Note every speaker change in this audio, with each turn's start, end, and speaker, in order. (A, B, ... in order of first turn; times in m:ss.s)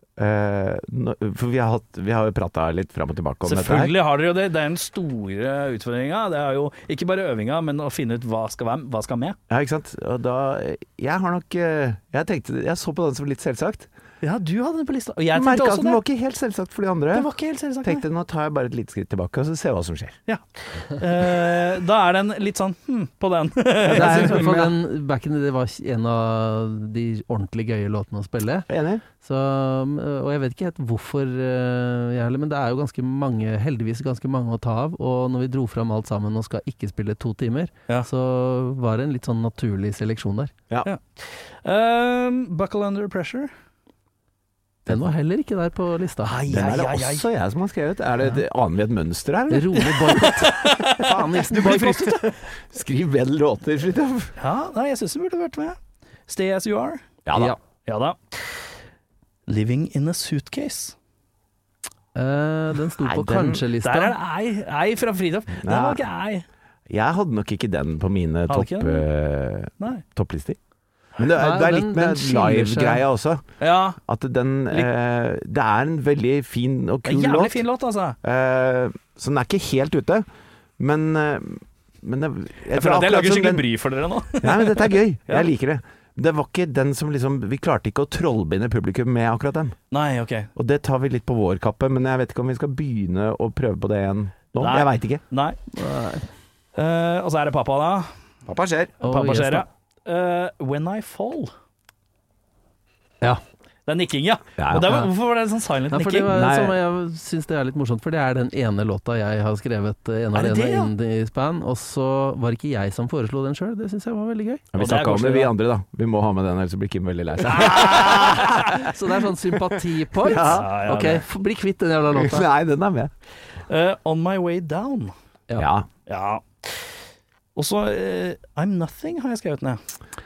0:00.2-0:03.9 A
0:03.4-0:09.4 B
0:09.5-0:13.9 A
0:14.2-0:16.0 B
0:15.3-0:17.3 A
0:17.1-0:18.0 B
0:17.8-0:20.2 A
0:20.3-0:24.7 B
0:23.8-0:24.7 A
0:23.9-0:28.7 C
0:28.7-0:29.0 A
0:29.2-0:40.5 C
0:40.8-0:43.5 B
0:44.9-0:46.6 C
0:46.2-0:47.2 B
0:46.5-0:50.3 A
0:49.5-0:52.2 C
0:50.1-0:52.3 B
0:50.8-0:54.3 A
0:54.4-0:57.1 B
0:57.2-0:57.5 A
0:57.8-0:58.7 B
0:59.5-1:00.9 B
1:02.1-1:04.1 C
1:03.0-1:03.6 A
1:03.8-1:06.4 B
1:05.6-1:06.0 A
1:06.9-1:10.6 A
1:08.5-1:09.0 B
1:11.2-1:13.4 A
1:11.3-1:13.0 C
1:13.6-1:14.0 B
1:14.0-1:17.6 A
1:17.0-1:18.2 B
1:18.2-1:20.2 A
1:20.8-1:23.6 A
1:22.7-1:25.5 B
1:24.4-1:29.8 A
1:29.9-1:30.5 B
1:30.6-1:35.2 A
1:34.6-1:35.6 B
1:35.7-1:36.2 C
1:36.7-1:38.1 B
1:38.4-1:39.0 A
1:39.0-1:39.6 C
1:39.0-1:41.5 B
1:43.8-1:46.4 B
1:44.6-1:45.1 A
1:45.9-1:54.7 C
1:46.3-1:46.8 A
1:50.3-1:50.9 B
1:54.7-1:58.9 A
1:54.8-1:55.5 B
1:57.4-1:58.8 B
1:58.6-2:02.5 C
2:00.2-2:00.6 A
2:00.3-2:01.2 B
2:02.1-2:03.1 A
2:03.7-2:05.1 B
2:05.6-2:05.9 A
2:06.1-2:07.0 B
2:07.6-2:09.8 B